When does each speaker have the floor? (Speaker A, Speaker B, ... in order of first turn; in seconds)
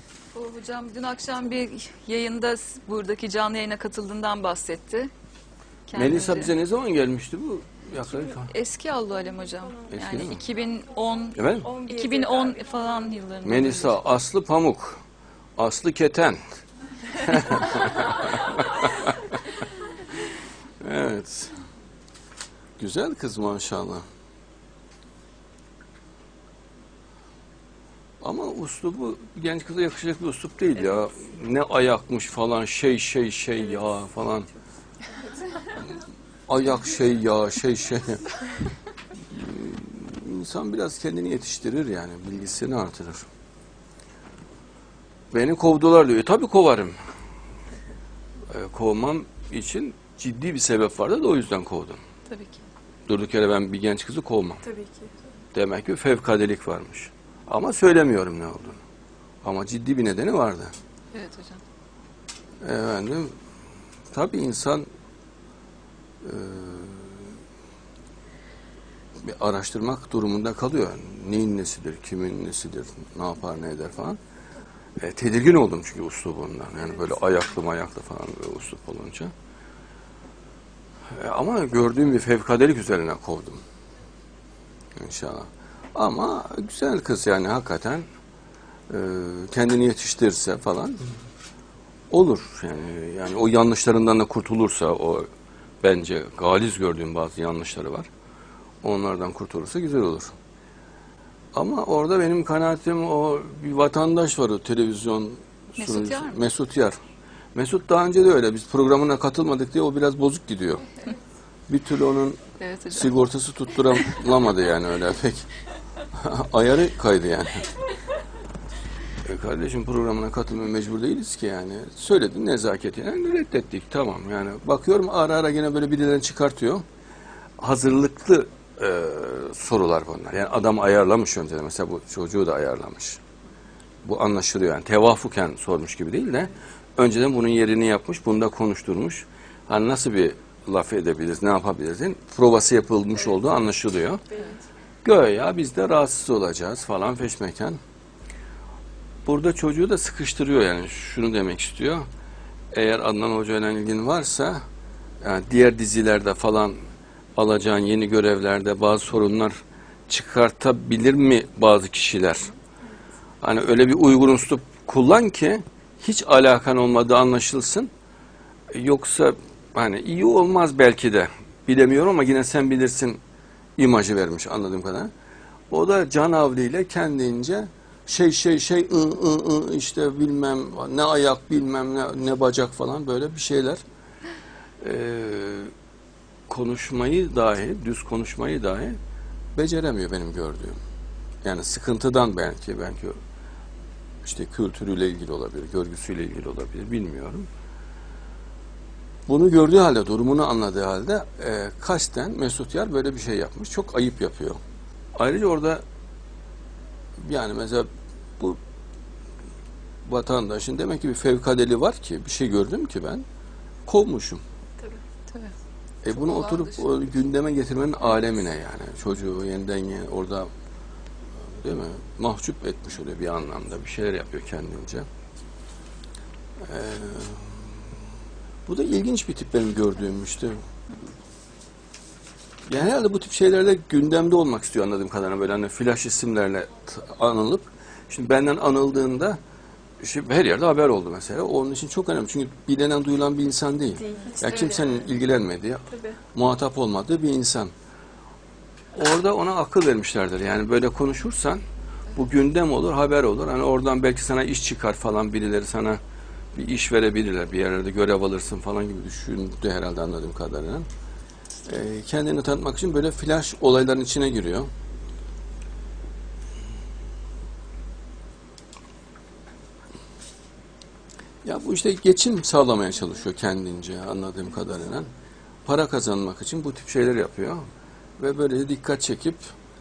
Speaker A: 0.3-5.1, 5.9-6.5, 8.5-14.0, 52.3-52.6, 61.1-61.6, 105.8-106.4, 112.6-113.2, 215.3-215.5, 216.1-216.8
Speaker B: 5.9-8.5, 9.9-10.4, 11.3-11.8, 13.4-15.0, 15.6-19.6, 20.8-21.6, 22.8-24.0, 28.2-34.5, 36.5-38.4, 39.2-43.3, 45.3-47.0, 48.5-52.0, 53.0-54.7, 55.5-58.8, 59.4-60.7, 62.6-63.3, 64.1-64.8, 66.2-67.3, 69.2-74.2, 75.0-79.3, 81.1-83.6, 84.9-88.0, 88.9-91.0, 92.1-95.3, 95.8-98.1, 98.8-100.3, 101.5-107.0, 107.5-110.9, 111.7-115.5, 116.1-117.7, 119.2-126.8, 127.6-133.2, 134.0-144.3, 145.0-147.8, 149.2-152.1, 152.7-154.6, 155.2-156.8, 157.3-162.5, 163.4-167.9, 168.7-173.2, 173.8-175.1, 175.7-183.8, 184.8-185.7, 186.5-189.0, 189.5-190.8, 191.4-193.2, 194.2-197.5, 199.3-204.6, 205.1-205.8, 207.2-207.9, 210.0-213.2, 213.8-214.4, 216.0-220.5, 221.4-225.1, 226.6-227.8, 228.7-230.6, 232.7-239.4, 240.0-247.7, 248.9-256.0, 256.5-260.9, 261.6-264.7, 271.4-275.1, 275.6-277.6, 278.2-279.4
Speaker C: 11.7-12.6, 54.6-55.1, 244.0-244.7